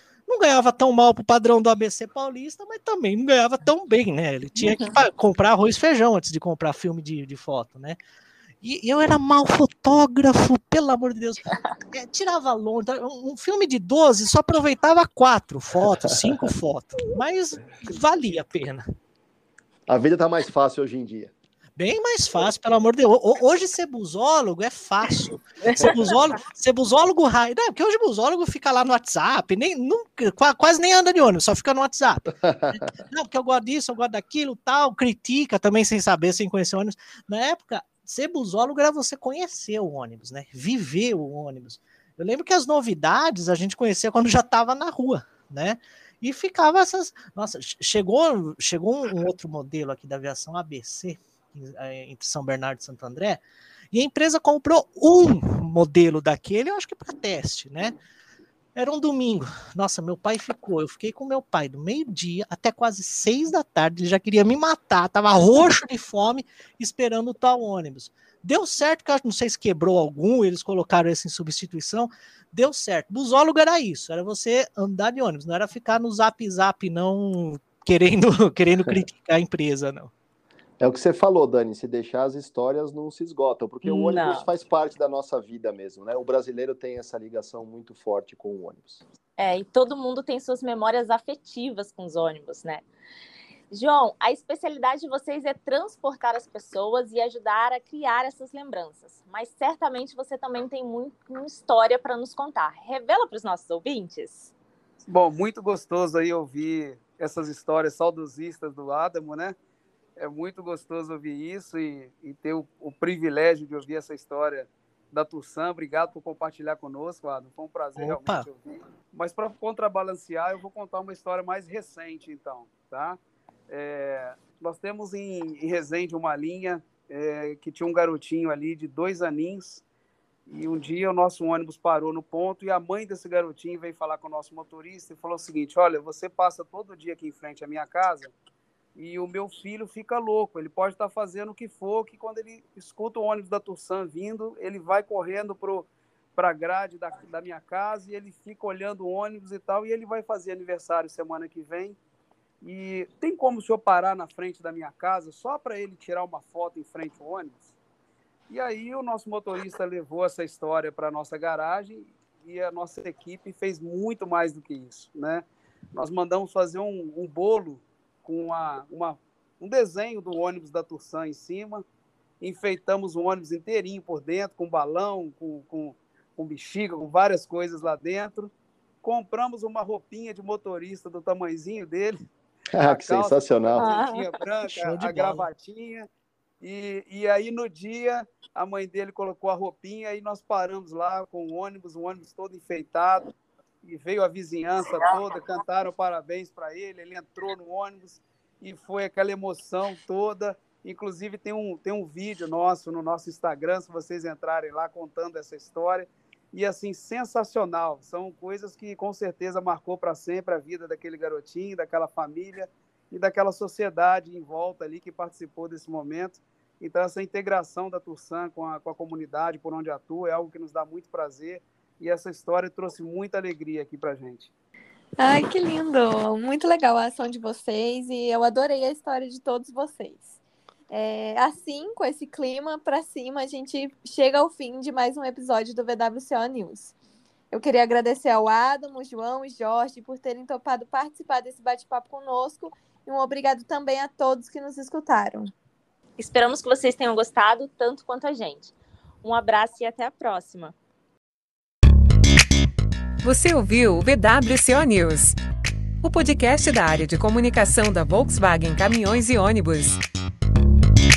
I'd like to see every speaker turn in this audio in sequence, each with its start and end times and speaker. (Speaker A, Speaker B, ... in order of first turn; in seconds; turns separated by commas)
Speaker A: 0.3-8.0, Speaker B: 4.6-4.9, Speaker A: 8.6-18.9, Speaker C: 19.9-21.3, Speaker A: 21.8-58.0, Speaker A: 58.7-80.1, Speaker C: 80.8-89.0, Speaker B: 83.8-84.5, Speaker B: 89.4-92.8, Speaker B: 93.7-104.5, Speaker D: 105.0-109.5, Speaker D: 110.2-129.8, Speaker A: 118.0-118.5, Speaker D: 130.5-138.3, Speaker D: 138.9-152.0, Speaker D: 152.6-157.7, Speaker D: 158.5-171.8, Speaker D: 172.4-178.5, Speaker D: 179.0-182.2, Speaker C: 182.7-183.9, Speaker D: 182.8-186.1, Speaker B: 183.7-184.3, Speaker A: 184.7-185.4, Speaker D: 186.6-193.3, Speaker D: 193.8-224.5, Speaker E: 225.2-230.3, Speaker E: 230.9-236.9, Speaker E: 237.5-245.5, Speaker B: 246.2-250.7, Speaker F: 253.2-255.3, Speaker F: 256.0-260.0